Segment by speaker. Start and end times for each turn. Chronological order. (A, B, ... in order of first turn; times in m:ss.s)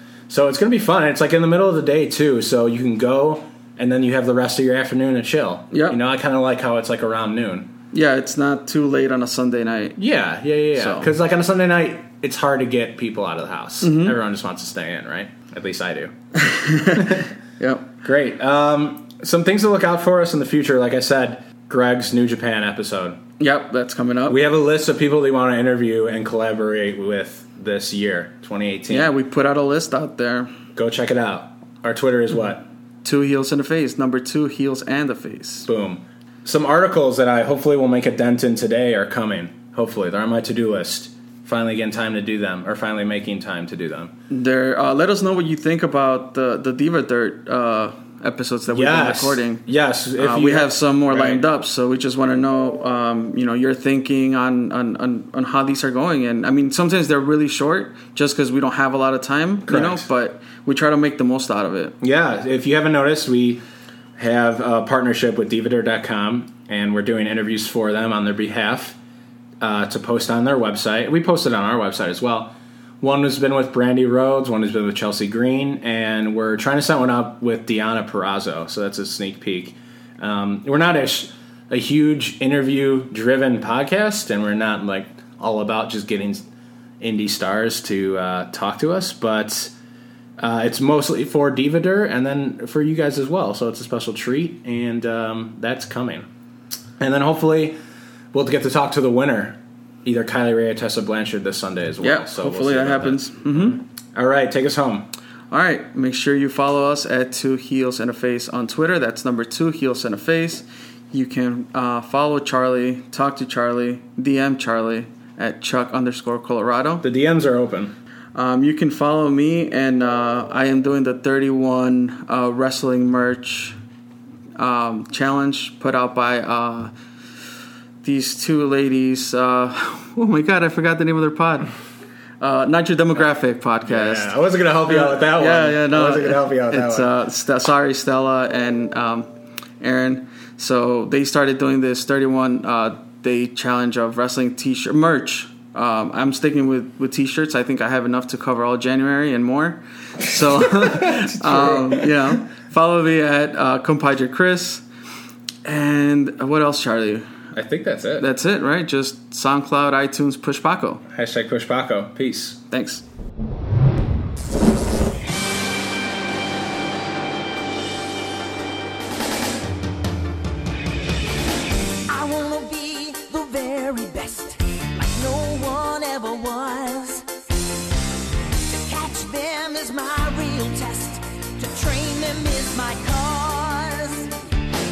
0:00.3-0:07.7 A
0:05.7-0:06.0 B
0:07.9-0:10.0 B
0:10.0-0:16.1 A
0:10.8-0:11.1 B
0:13.8-0:14.2 B
0:16.4-0:17.9 B
0:16.9-0:17.3 A
0:18.0-0:23.2 A
0:23.4-0:24.4 B
0:24.3-0:29.1 A
0:28.9-0:30.5 B
0:30.8-0:32.7 A
0:33.0-0:35.7 B
0:35.6-0:44.1 A
0:44.3-0:49.6 B
0:48.7-0:51.4 A
0:50.2-1:01.9 B
0:59.7-1:00.1 A
1:02.0-1:03.6 A
1:04.2-1:09.0 A
1:09.6-1:26.4 A
1:27.0-1:29.7 A
1:30.4-1:36.3 A
1:37.0-1:37.8 A
1:38.3-1:45.1 A
1:42.0-1:43.8 B
1:45.5-1:57.0 B
1:57.0-1:57.9 A
1:58.4-2:03.8 B
2:04.6-2:06.9 B
2:08.0-2:11.7 B
2:12.4-2:14.3 B
2:13.9-2:17.2 A
2:14.8-2:19.3 B
2:19.8-2:34.8 B
2:30.8-2:32.1 A
2:35.6-2:37.4 B
2:37.5-2:38.3 A
2:38.2-2:41.0 B
2:41.1-2:42.6 A
2:42.7-2:43.0 B
2:52.1-2:57.3 C
2:58.7-3:04.4 C